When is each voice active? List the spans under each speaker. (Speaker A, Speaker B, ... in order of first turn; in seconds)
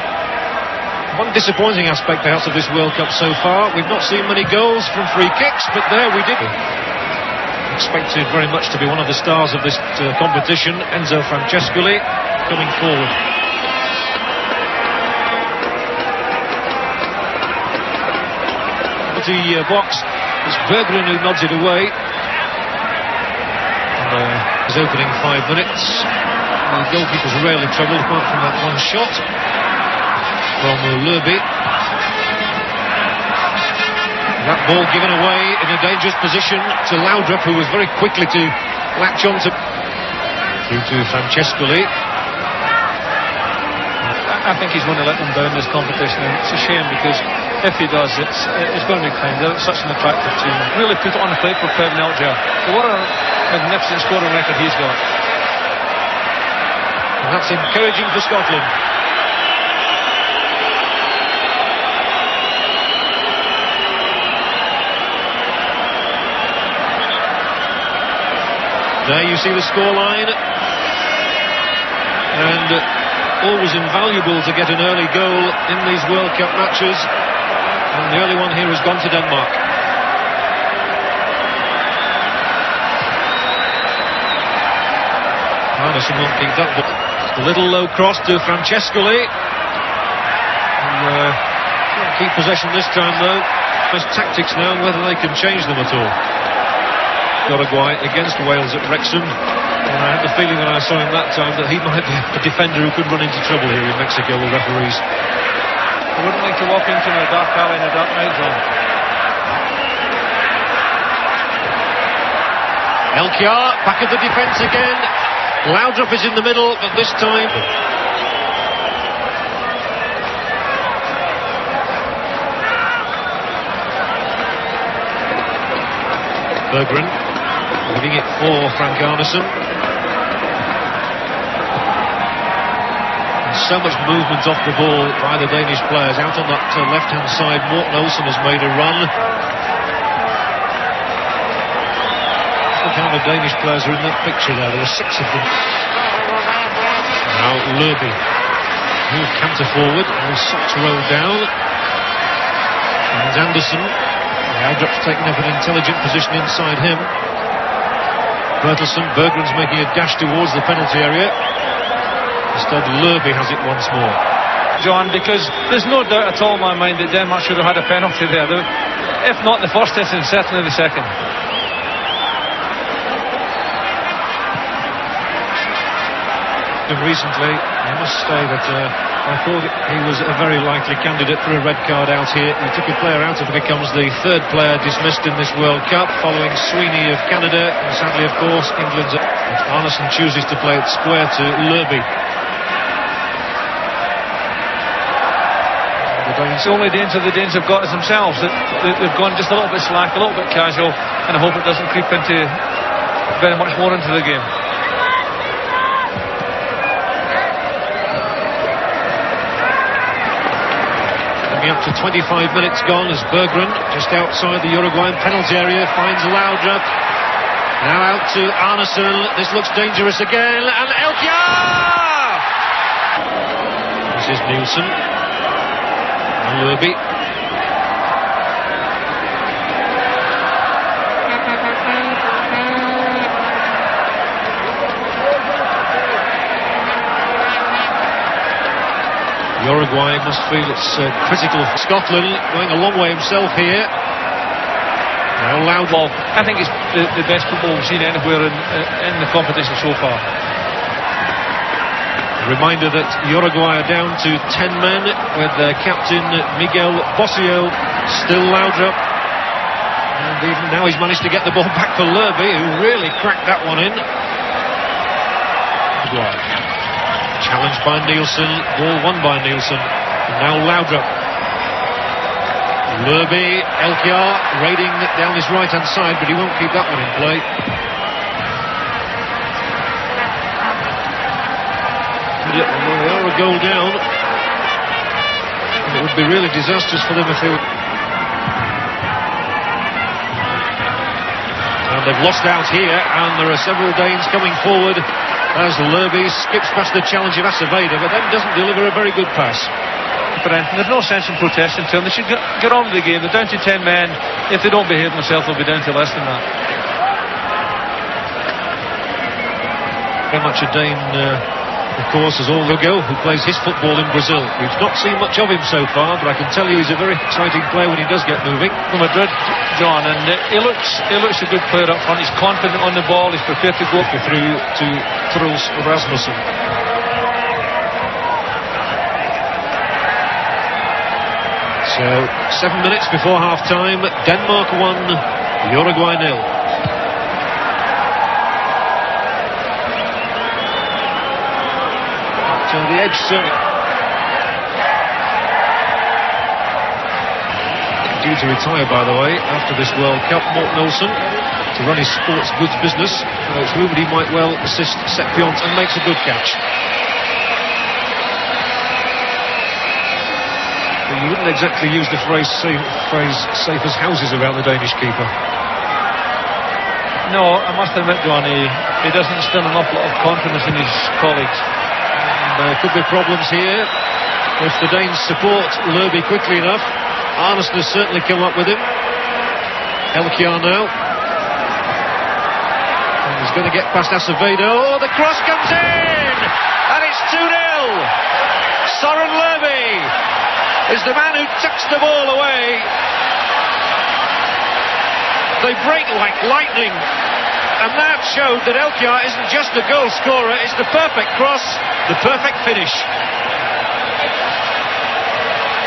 Speaker A: 1.1-6.5, 7.7-13.1, 19.1-21.9, 24.0-26.1, 26.6-29.2, 30.6-31.4, 34.4-39.5, 40.7-41.9, 57.2-58.7, 69.0-70.3, 72.3-72.8, 73.4-77.1, 77.9-79.6, 85.7-89.3, 90.8-91.4, 91.9-96.2, 97.4-99.3, 99.8-105.0, 113.1-115.1, 115.6-117.7, 126.7-127.2, 127.8-129.5, 133.4-139.1, 142.7-145.6, 147.2-148.2, 149.1-151.5, 153.1-153.9, 154.5-157.1, 158.6-161.3, 162.5-164.2, 176.9-192.1, 196.0-196.7, 211.5-216.8, 217.8-222.4, 224.1-224.9, 226.3-227.0, 239.6-243.9, 245.4-246.1, 252.4-259.0, 260.1-264.0, 266.0-266.5, 267.4-271.1, 272.9-277.4, 282.4-284.0, 285.8-287.6, 291.9-299.7, 310.3-311.4, 311.9-318.8, 324.0-326.4, 331.8-336.5, 342.4-343.5, 348.1-351.2, 351.7-356.6, 361.0-365.3, 372.1-373.9, 374.6-378.9, 380.1-380.9, 383.2-388.1, 388.8-390.1, 390.9-392.9, 395.6-397.0, 397.8-403.1
Speaker B: 44.2-55.0, 106.1-108.6, 164.8-168.7, 169.2-171.1, 196.6-202.6, 203.3-204.5, 245.9-250.2, 300.4-306.4, 318.9-324.0, 367.2-371.6